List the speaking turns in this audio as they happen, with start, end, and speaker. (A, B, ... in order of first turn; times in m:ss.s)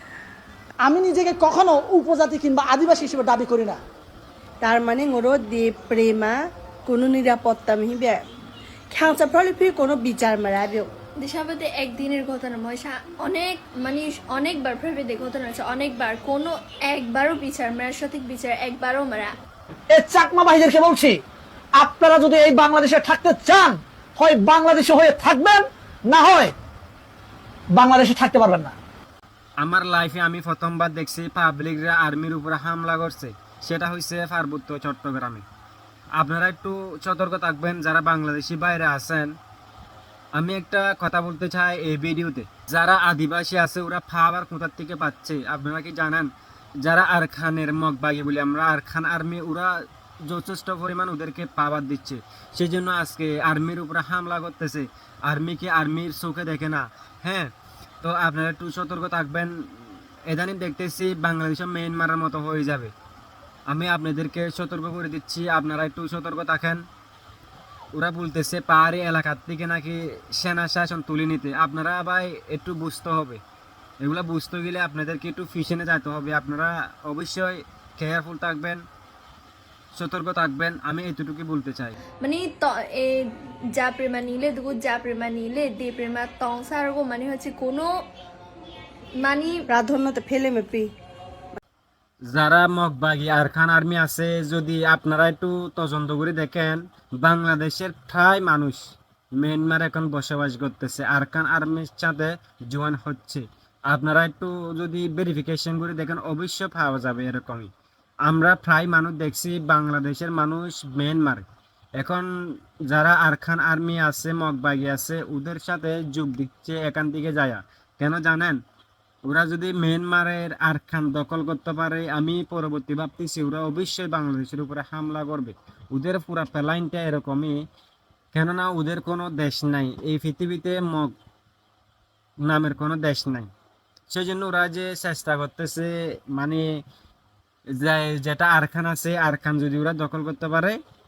0:00.8-0:03.8 A
0:04.6-0:06.3 B
0:06.9-0:08.2 B
0:08.9-0:10.9 B
0:11.2-0:19.3 C
0:19.9-0:21.2 A
0:21.8-0:26.5 A
0:27.7-0:28.7 A
0:29.6-0:35.4 D
0:36.2-0:39.3 D
0:40.4-0:46.3 D
0:46.8-1:02.9 D
1:03.7-1:06.8 D
1:07.9-1:13.4 D
1:14.0-1:18.8 D
1:19.9-1:22.0 D
1:22.2-1:27.9 C
1:29.2-1:29.6 C
1:29.7-1:30.9 B
1:32.2-1:47.7 D
1:48.3-1:51.4 D
1:52.0-1:52.3 D
1:52.9-1:58.6 D
1:59.2-2:07.6 D
2:08.3-2:11.1 D
2:12.4-2:13.5 D
2:14.1-2:16.6 D
2:17.8-2:20.8 D